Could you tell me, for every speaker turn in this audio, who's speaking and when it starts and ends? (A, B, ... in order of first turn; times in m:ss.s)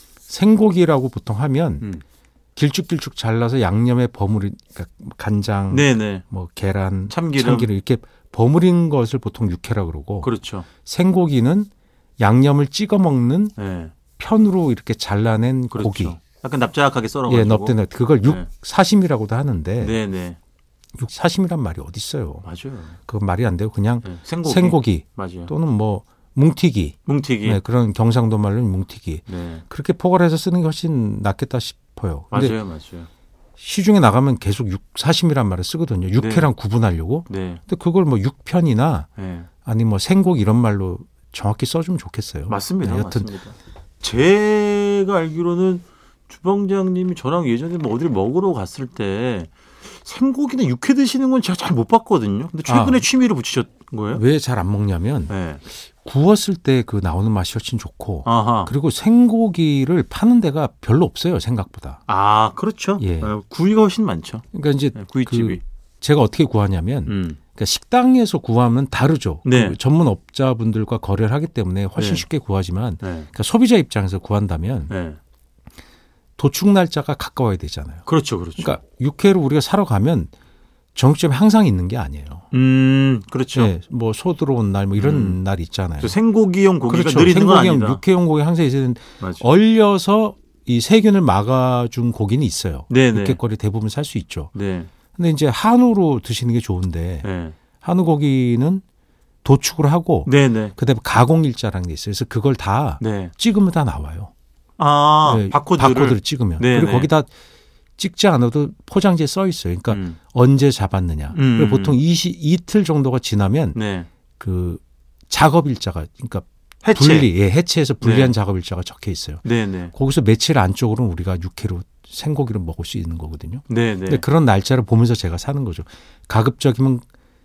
0:00.3-0:01.9 A
0:02.6-0:10.3 A
0:05.7-0:06.2 B
0:07.1-0:07.7 B
0:10.2-0:10.7 B
0:10.8-0:13.6 A
0:13.6-0:14.0 B
0:14.2-0:16.2 A
0:15.7-0:18.5 B
0:17.3-0:20.0 A
0:19.8-0:20.4 B
0:21.0-0:22.5 A
0:22.4-0:23.0 B
0:23.1-0:32.6 A
0:24.0-0:25.5 B
0:27.1-0:27.6 B
0:29.3-0:29.6 B
0:32.3-0:33.1 B
0:33.6-0:39.1 A
0:36.2-0:36.5 B
0:37.3-0:37.6 B
0:39.2-0:39.5 B
0:39.6-0:43.3 A
0:42.5-0:54.2 B
0:52.7-0:53.1 A
0:54.1-1:02.0 A
0:55.3-0:55.6 B
0:58.2-0:58.7 B
1:02.1-1:05.6 B
1:03.0-1:03.3 A
1:04.5-1:14.9 A
1:07.1-1:07.4 B
1:09.4-1:09.8 B
1:12.0-1:12.3 B
1:13.0-1:13.3 B
1:14.9-1:15.2 B
1:16.4-1:18.1 A
1:18.1-1:18.8 B
1:18.6-1:20.3 A
1:21.0-1:22.5 A
1:22.5-1:23.7 B
1:23.5-1:26.2 A
1:25.0-1:25.4 B
1:26.0-1:28.0 B
1:26.9-1:34.5 A
1:29.2-1:29.5 B
1:32.9-1:33.4 B
1:34.5-1:34.9 B
1:35.2-1:37.3 A
1:37.2-1:37.6 B
1:37.8-1:38.8 A
1:39.4-1:44.3 A
1:40.3-1:40.8 B
1:43.0-1:43.3 B
1:44.8-1:47.1 B
1:45.2-1:47.3 A
1:48.0-1:53.8 A
1:49.9-1:50.2 B
1:51.3-1:52.0 B
1:53.8-1:54.1 B
1:54.4-2:07.0 A
1:56.8-1:57.3 B
1:58.0-1:58.4 B
1:59.4-1:59.9 B
2:03.7-2:04.2 B